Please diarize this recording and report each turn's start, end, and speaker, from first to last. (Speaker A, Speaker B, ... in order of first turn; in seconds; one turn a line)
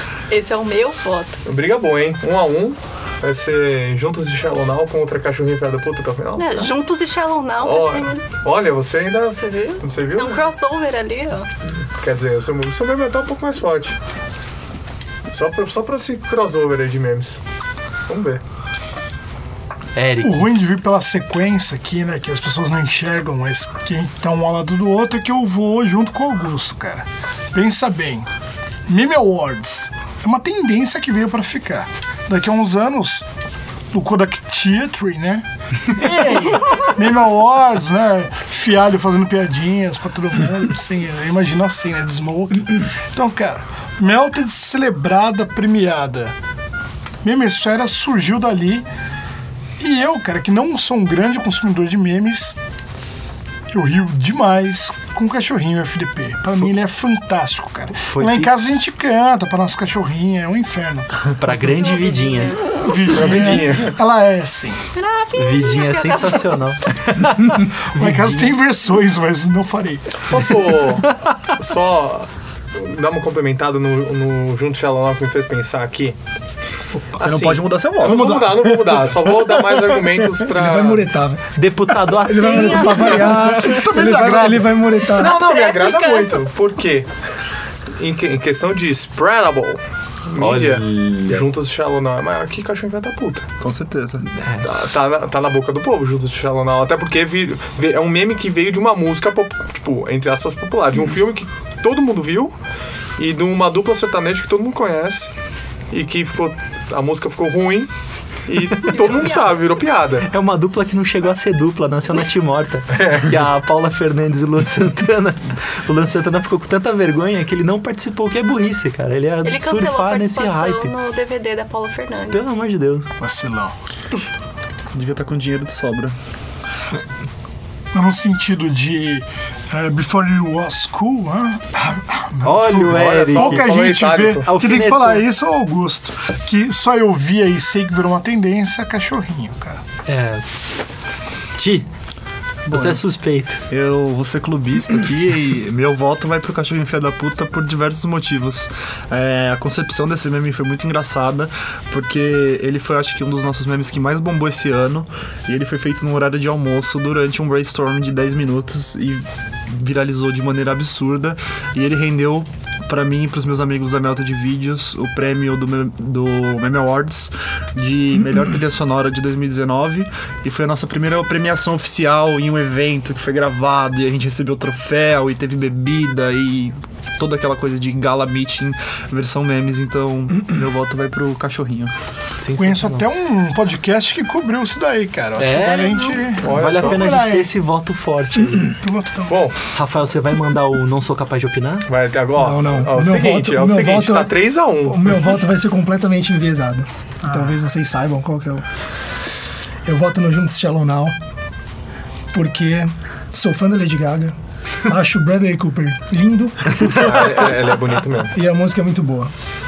Speaker A: 0.3-1.4
Speaker B: 1.4-6.8
Speaker A: 6.4-8.3
Speaker B: 7.6-10.4
Speaker A: 9.4-11.5
Speaker B: 12.0-14.0
Speaker B: 15.3-17.4
Speaker B: 18.1-18.4
Speaker C: 19.9-20.5
Speaker D: 20.2-28.3
Speaker D: 28.9-33.3
Speaker D: 33.9-46.3
Speaker D: 47.2-48.9
Speaker D: 49.8-52.5
Speaker D: 53.7-61.3
Speaker C: 58.0-58.5
Speaker C: 61.4-62.6
Speaker A: 61.8-62.8
Speaker D: 62.8-64.8
Speaker B: 63.1-64.0
Speaker A: 65.0-66.5
Speaker C: 65.4-68.5
Speaker D: 68.0-70.2
Speaker B: 70.3-76.2
Speaker E: 77.2-80.3
Speaker B: 77.2-81.1
Speaker F: 80.5-81.4
Speaker C: 81.5-83.8
Speaker F: 82.2-85.4
Speaker D: 83.5-85.0
Speaker B: 85.1-87.1
Speaker A: 85.2-86.5
Speaker B: 88.0-93.5
Speaker C: 90.4-91.5
Speaker E: 93.6-94.3
Speaker C: 94.4-94.7
Speaker B: 94.6-102.5
Speaker B: 103.2-105.3
Speaker B: 105.9-107.9
Speaker B: 108.5-110.3
Speaker A: 108.9-109.5
Speaker C: 110.2-120.9
Speaker A: 119.4-122.5
Speaker C: 122.3-123.1
Speaker D: 123.2-123.7
Speaker E: 124.9-126.1
Speaker D: 127.9-139.8
Speaker C: 132.4-133.7
Speaker B: 132.9-134.5
Speaker C: 134.4-135.2
Speaker C: 140.1-140.4
Speaker C: 141.6-141.9
Speaker C: 142.7-143.6
Speaker E: 142.7-143.0
Speaker E: 143.7-181.9
Speaker C: 182.4-183.0
Speaker D: 182.6-187.5
Speaker C: 185.4-188.7
Speaker B: 186.4-187.0
Speaker D: 188.8-189.5
Speaker B: 189.3-189.6
Speaker C: 189.7-191.9
Speaker B: 191.9-195.2
Speaker F: 192.4-194.3
Speaker F: 194.9-198.6
Speaker D: 197.2-197.6
Speaker F: 199.8-201.1
Speaker F: 202.3-204.3
Speaker F: 204.9-207.1
Speaker B: 206.9-208.3
Speaker F: 208.3-209.3